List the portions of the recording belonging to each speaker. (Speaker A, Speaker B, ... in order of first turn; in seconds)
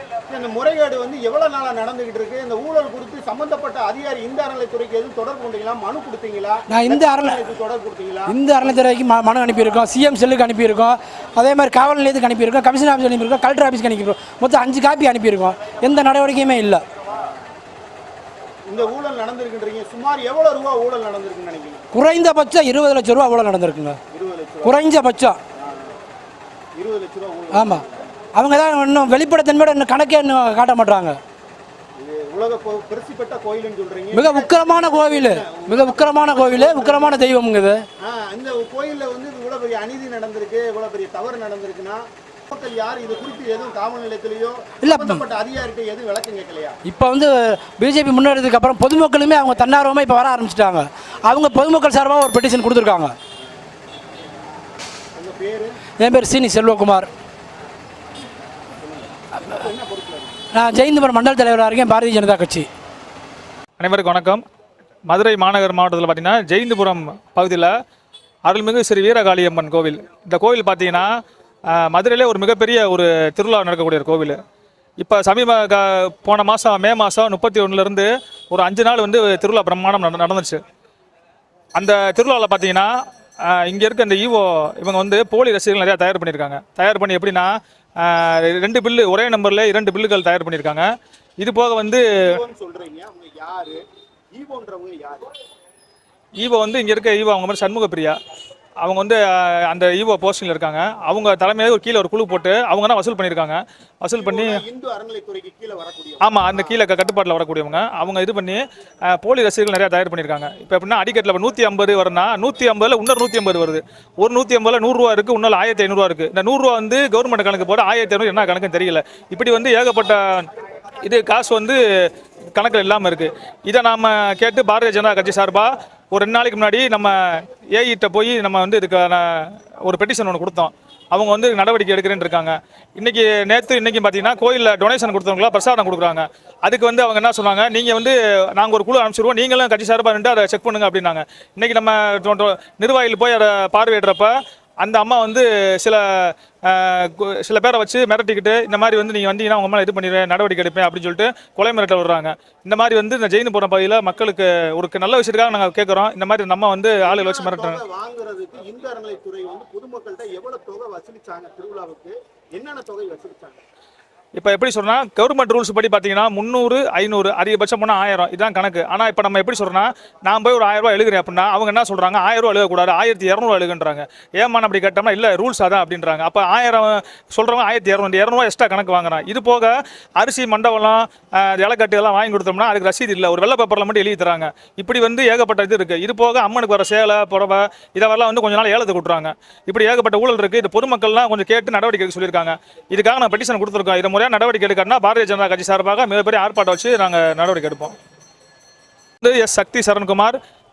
Speaker A: 0.3-8.4, 18.7-21.9, 24.1-24.8, 25.6-25.9, 26.8-28.1, 32.0-37.2, 38.0-46.8, 55.1-55.8, 58.8-60.4, 92.2-93.8, 94.3-95.3, 104.1-106.8, 157.0-163.6
Speaker B: 6.7-7.4, 8.3-16.8, 21.9-24.0, 24.6-25.4, 27.5-31.2, 34.1-37.8, 44.8-45.2, 46.9-53.1, 56.0-57.1, 60.5-62.7
Speaker C: 63.8-64.4, 65.1-67.7, 68.5-71.1, 71.7-74.4, 75.0-80.6, 81.8-82.9, 83.4-90.9, 91.4-92.1, 96.4-98.2, 98.8-104.6, 106.2-120.5, 121.0-157.8, 164.4-197.9, 199.2-200.4